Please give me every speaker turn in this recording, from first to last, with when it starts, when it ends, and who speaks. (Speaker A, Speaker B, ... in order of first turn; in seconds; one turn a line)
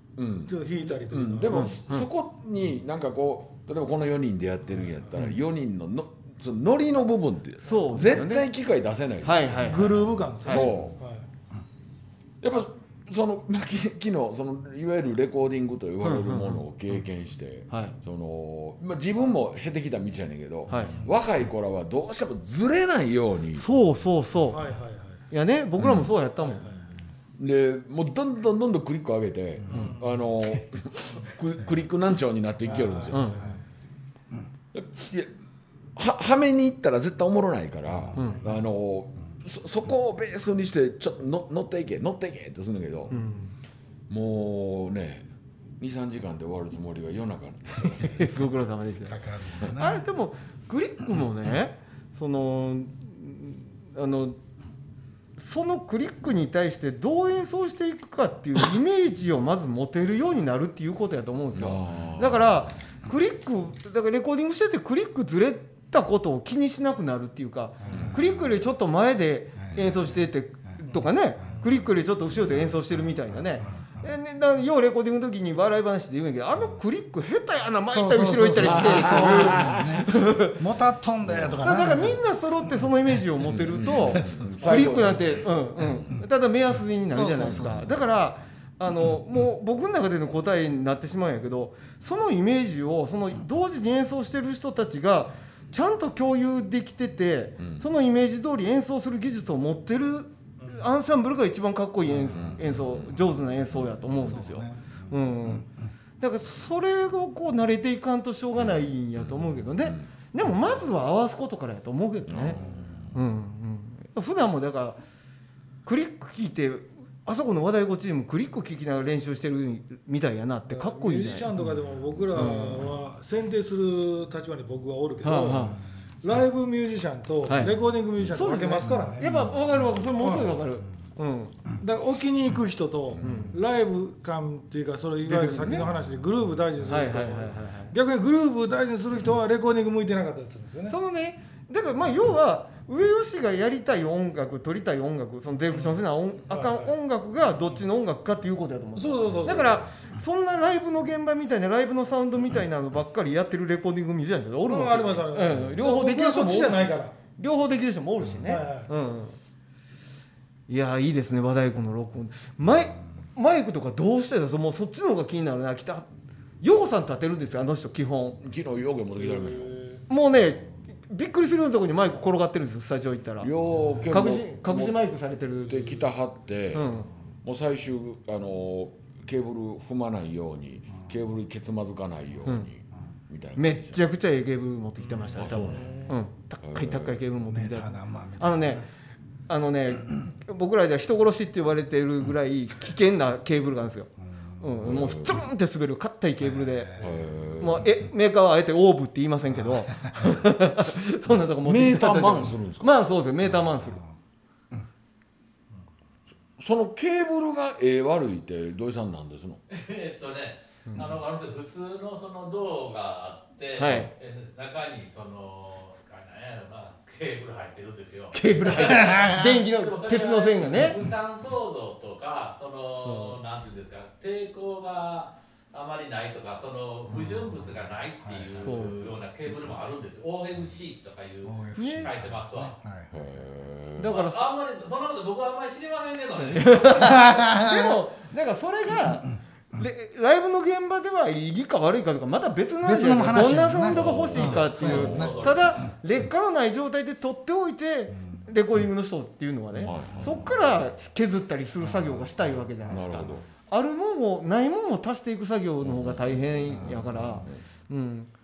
Speaker A: 0.2-10.9
Speaker B: 0.5-1.7
Speaker C: 1.5-2.1
Speaker C: 7.6-8.5
Speaker C: 9.2-10.7
Speaker B: 9.6-11.2
Speaker A: 12.4-23.7
Speaker C: 16.0-16.6
Speaker C: 17.7-17.9
Speaker C: 20.7-21.0
Speaker C: 23.6-24.6
Speaker B: 24.5-25.2
Speaker C: 25.3-26.6
Speaker A: 25.8-26.1
Speaker B: 26.4-26.9
Speaker A: 27.4-33.4
Speaker B: 29.7-30.2
Speaker D: 32.7-33.6
Speaker C: 33.1-33.5
Speaker A: 34.7-35.3
Speaker A: 36.0-43.2
Speaker D: 38.0-38.4
Speaker C: 38.1-38.4
Speaker C: 43.1-43.5
Speaker A: 44.1-45.2
Speaker A: 45.8-48.3
Speaker C: 48.0-54.4
Speaker D: 49.0-50.0
Speaker C: 55.4-80.6
Speaker A: 61.5-62.6
Speaker D: 67.8-68.6
Speaker A: 67.9-68.2
Speaker D: 69.6-70.2
Speaker B: 70.8-71.7
Speaker D: 71.4-71.8
Speaker D: 72.4-74.1
Speaker D: 77.8-82.2
Speaker A: 78.6-80.1
Speaker A: 81.3-81.6
Speaker C: 81.6-105.7
Speaker A: 83.4-85.5
Speaker D: 84.0-84.8
Speaker D: 87.1-87.9
Speaker B: 100.6-100.9
Speaker D: 102.1-102.5
Speaker A: 102.3-103.9
Speaker D: 104.1-105.7
Speaker C: 106.2-112.6
Speaker A: 108.5-110.1
Speaker A: 112.3-113.2
Speaker D: 112.5-113.0
Speaker C: 113.1-115.0
Speaker C: 115.8-121.5
Speaker B: 120.7-129.3
Speaker C: 122.3-122.9
Speaker C: 125.2-125.8
Speaker C: 127.4-127.7
Speaker C: 128.3-131.6
Speaker D: 128.8-129.5
Speaker B: 130.2-130.5
Speaker B: 131.8-141.0
Speaker C: 133.2-133.6
Speaker C: 135.2-135.9
Speaker C: 136.8-137.9
Speaker C: 140.9-159.4
Speaker B: 145.7-146.9
Speaker B: 148.9-149.8
Speaker B: 154.7-157.2
Speaker B: 158.4-158.9
Speaker C: 160.7-166.1
Speaker C: 166.6-168.4
Speaker A: 168.4-169.7
Speaker B: 169.2-170.0
Speaker C: 170.1-173.5
Speaker A: 173.4-175.0
Speaker C: 174.1-176.0
Speaker A: 175.6-176.9
Speaker C: 176.7-177.1
Speaker A: 177.4-184.0
Speaker C: 183.6-188.9
Speaker B: 185.0-186.2
Speaker A: 185.3-185.9
Speaker A: 186.6-187.2
Speaker D: 187.5-188.8
Speaker C: 189.5-197.0
Speaker D: 194.2-194.9
Speaker A: 194.8-195.4
Speaker D: 196.4-197.1
Speaker A: 197.0-197.9
Speaker C: 197.6-204.0
Speaker D: 199.5-200.3
Speaker A: 201.6-202.9
Speaker D: 203.4-204.2
Speaker A: 206.6-209.6
Speaker E: 209.7-232.8
Speaker C: 210.9-211.2
Speaker C: 213.8-214.1
Speaker C: 218.3-221.0
Speaker D: 219.0-219.4
Speaker C: 223.0-223.4
Speaker D: 227.3-227.6
Speaker D: 228.2-228.9
Speaker C: 228.5-229.0
Speaker D: 231.4-233.2
Speaker C: 231.8-232.1
Speaker A: 233.1-234.1
Speaker C: 234.0-234.5
Speaker E: 234.1-237.3
Speaker C: 236.4-258.3
Speaker D: 237.0-238.0
Speaker D: 242.8-245.4
Speaker A: 243.4-245.6
Speaker E: 244.5-246.0
Speaker D: 248.1-248.4
Speaker A: 249.8-250.5
Speaker D: 251.8-252.3
Speaker A: 252.9-253.4
Speaker A: 255.8-257.6
Speaker D: 256.7-257.5